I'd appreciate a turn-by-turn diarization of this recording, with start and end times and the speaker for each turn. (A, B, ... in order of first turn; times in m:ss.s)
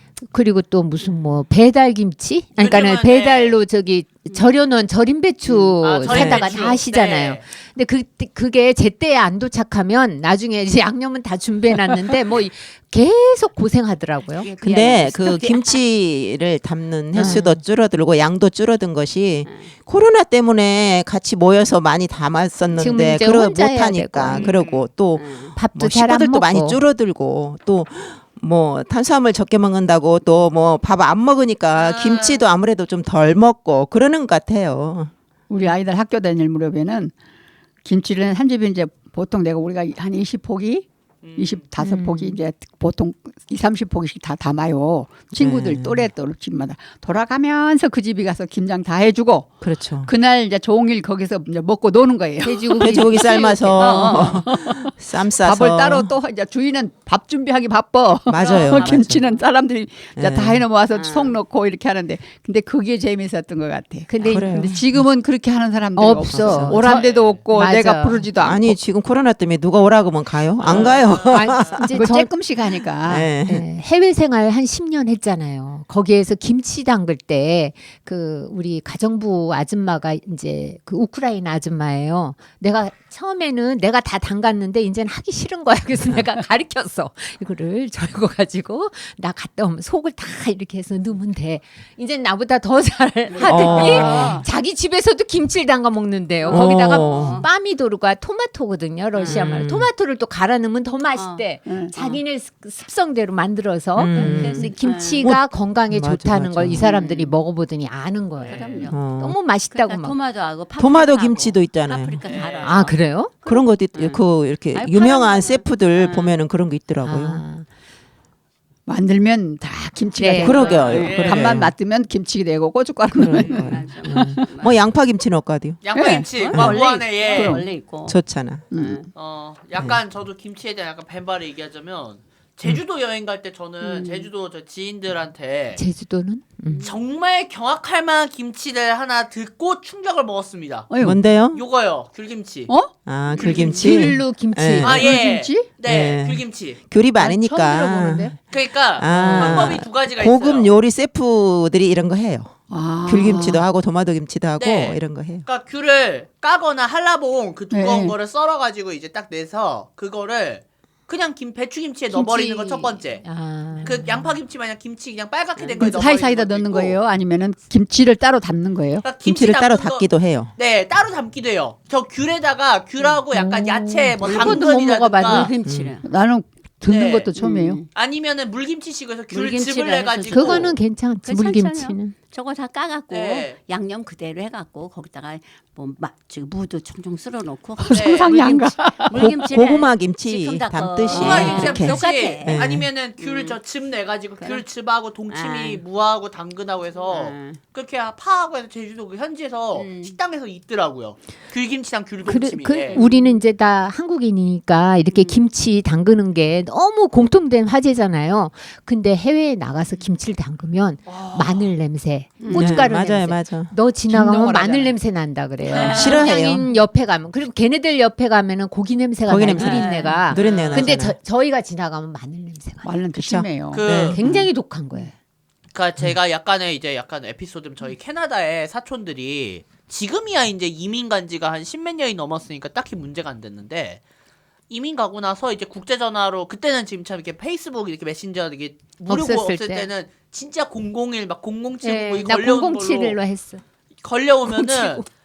0:00.2-0:14.5 A
0:02.6-0:03.6 B
0:04.3-0:04.6 C
0:05.5-0:05.8 C
0:05.8-0:07.4 B
0:06.1-0:06.5 D
0:14.3-0:15.8 C
0:14.6-0:35.1 D
0:17.1-0:17.6 A
0:19.5-0:19.7 C
0:22.7-0:24.5 A
0:24.3-0:24.9 B
0:25.1-0:25.6 C
0:25.6-0:26.8 A
0:31.7-0:32.5 B
0:35.5-0:37.1 E
0:37.8-1:08.8 E
0:41.2-0:41.7 B
0:41.8-0:42.4 A
0:45.4-0:46.1 D
0:49.6-0:50.1 D
0:52.4-0:54.3 A
0:52.8-0:56.1 D
0:53.8-0:54.3 C
0:58.3-0:59.2 D
0:58.4-0:59.4 B
0:58.4-0:58.8 C
1:00.2-1:00.6 D
1:00.9-1:01.4 C
1:04.1-1:04.9 A
1:04.2-1:04.4 C
1:04.3-1:04.8 D
1:06.0-1:08.3 A
1:06.3-1:06.8 D
1:06.8-1:07.4 B
1:08.4-1:11.9 D
1:10.6-1:11.8 B
1:11.3-1:12.3 A
1:11.9-1:13.3 E
1:13.0-1:13.7 D
1:13.4-1:50.2 A
1:33.3-1:34.4 C
1:33.4-1:34.4 D
1:33.8-1:34.5 E
1:36.4-1:37.5 C
1:36.5-1:37.4 D
1:39.1-1:39.6 C
1:39.3-1:39.9 D
1:41.1-1:42.2 C
1:41.6-1:41.9 E
1:44.0-1:46.9 D
1:44.2-1:45.3 C
1:46.8-1:47.4 C
1:48.4-1:48.9 B
1:48.4-1:49.0 C
1:48.9-1:49.4 D
1:49.6-1:56.4 C
1:50.8-1:52.2 D
1:52.2-1:52.9 B
1:52.6-1:53.3 A
1:53.3-1:57.4 D
1:57.0-1:57.7 A
1:58.9-2:04.4 E
2:00.2-2:00.6 A
2:00.4-2:01.7 D
2:00.4-2:01.0 C
2:00.8-2:01.6 B
2:03.1-2:05.8 D
2:03.3-2:03.7 B
2:03.7-2:04.9 C
2:05.8-2:07.6 B
2:05.9-2:06.3 E
2:06.2-2:08.2 C
2:06.5-2:06.8 D
2:06.8-2:07.6 E
2:08.0-2:08.7 D
2:08.7-2:09.0 E
2:08.7-2:09.1 C
2:09.2-2:15.8 B
2:13.8-2:14.3 C
2:15.8-2:16.9 A
2:16.7-2:17.0 C
2:16.8-2:22.7 B
2:20.9-2:21.2 E
2:21.0-2:21.6 D
2:22.7-2:24.2 E
2:23.1-2:25.1 D
2:23.3-2:23.8 B
2:23.8-2:25.0 A
2:24.8-2:26.8 B
2:24.9-2:25.7 E
2:25.8-2:28.4 D
2:27.2-2:28.4 E
2:28.5-2:30.8 B
2:28.9-2:32.6 D
2:29.1-2:29.8 E
2:32.7-2:33.6 E
2:33.1-2:35.5 D
2:34.6-2:43.2 B
2:37.7-2:38.2 E
2:42.1-2:44.4 A
2:43.8-2:47.0 B
2:45.6-2:45.9 C
2:45.8-2:49.1 E
2:49.0-2:55.5 B
2:49.2-2:50.5 D
2:53.4-2:54.3 E
2:54.2-2:55.5 A
2:54.2-2:54.6 C
2:55.2-2:56.1 C
2:55.6-2:55.9 D
2:56.0-2:57.8 E
2:56.8-2:57.3 B
2:57.4-2:57.9 C
2:57.9-3:00.8 B
2:59.3-3:08.0 C
3:00.3-3:02.2 A
3:03.1-3:03.6 B
3:07.8-3:09.4 E
3:07.9-3:09.0 B
3:09.1-3:12.6 C
3:09.1-3:12.9 D
3:11.1-3:23.0 B
3:13.2-3:13.6 C
3:14.4-3:14.7 C
3:15.3-3:15.8 C
3:17.0-3:17.6 C
3:19.7-3:20.2 C
3:22.3-3:43.0 A
3:22.9-3:23.4 C
3:25.0-3:25.5 C
3:31.1-3:31.7 B
3:32.4-3:32.7 C
3:32.5-3:32.9 E
3:32.6-3:33.8 D
3:34.1-3:35.0 E
3:35.7-3:36.8 C
3:35.8-3:36.6 D
3:39.3-3:41.2 D
3:39.6-3:40.2 C
3:40.3-3:41.0 B
3:42.8-3:45.1 E
3:43.2-3:44.2 D
3:43.7-3:44.2 B
3:44.1-3:45.1 A
3:45.7-3:54.0 B
3:54.7-4:03.2 B
3:59.0-3:59.9 A
4:01.8-4:03.6 A
4:04.0-4:05.0 B
4:04.5-4:05.1 A